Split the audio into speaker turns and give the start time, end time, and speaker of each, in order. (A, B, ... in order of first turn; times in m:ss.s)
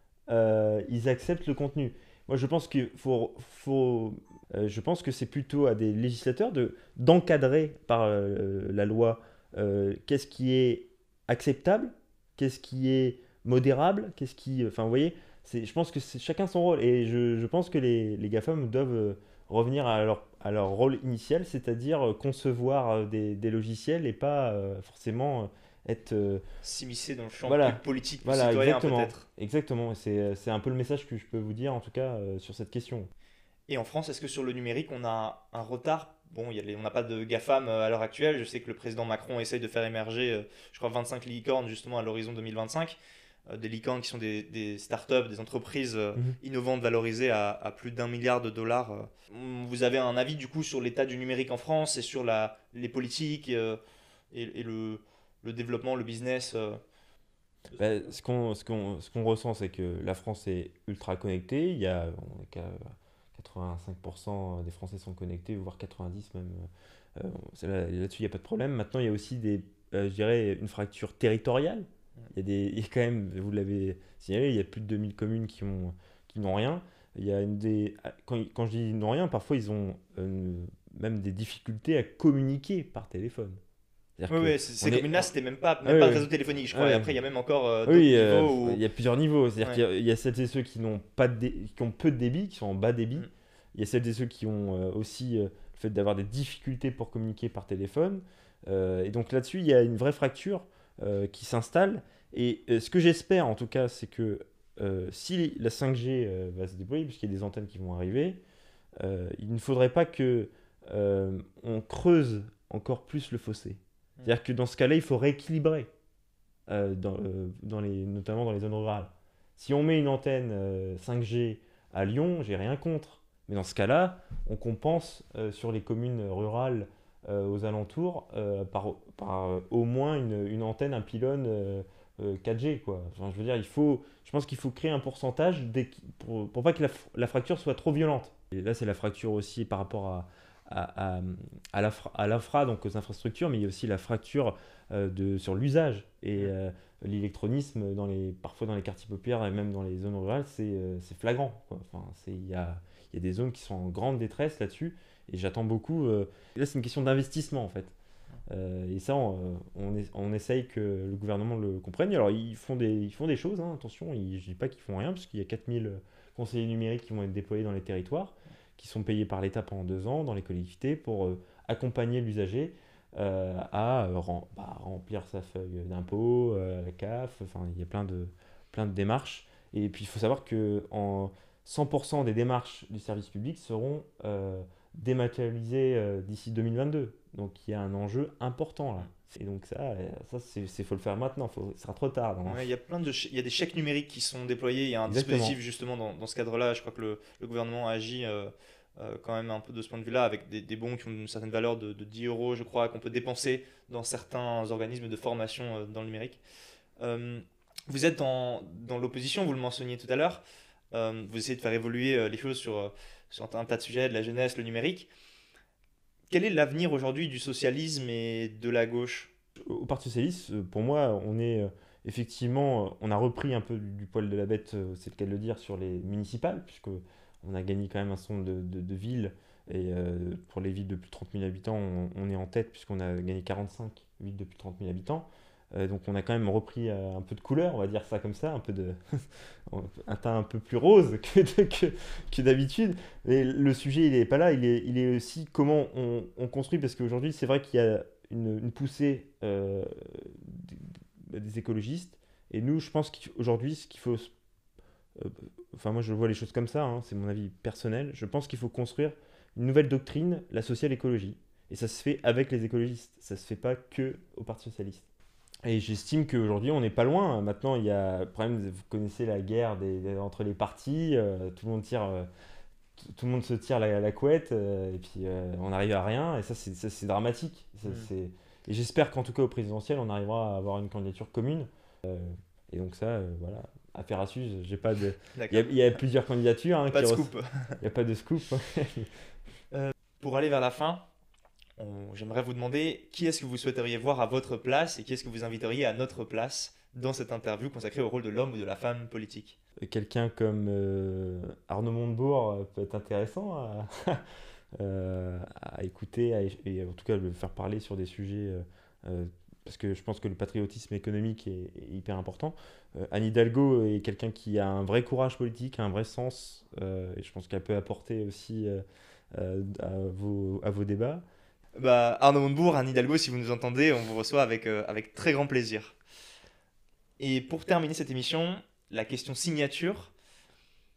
0:00.3-0:26.4 A
0:26.6-0:29.2 B
0:27.4-0:33.1 A
0:33.7-0:43.0 B
0:43.5-0:53.8 B
0:54.3-0:56.8 B
0:57.7-1:23.6 A
1:24.2-1:25.3 A
1:24.3-1:28.8 B
1:25.8-1:27.1 A
1:27.8-1:48.4 A
1:49.0-1:55.9 A
1:56.7-2:37.9 A
2:38.5-3:12.7 A
3:12.5-3:26.4 B
3:15.1-3:15.6 A
3:27.0-3:35.1 B
3:36.3-3:39.3 B
3:39.7-3:59.0 A
3:59.7-4:14.3 A
4:15.2-4:25.1 A
4:25.6-4:32.3 A
4:33.0-4:49.1 A
4:45.3-4:45.7 B
4:46.9-4:47.7 B
4:49.7-4:51.0 B
4:51.8-4:59.6 B
4:59.8-5:04.2 A
5:04.8-5:18.8 A
5:19.3-5:21.2 A
5:21.8-5:26.0 B
5:27.2-5:30.1 B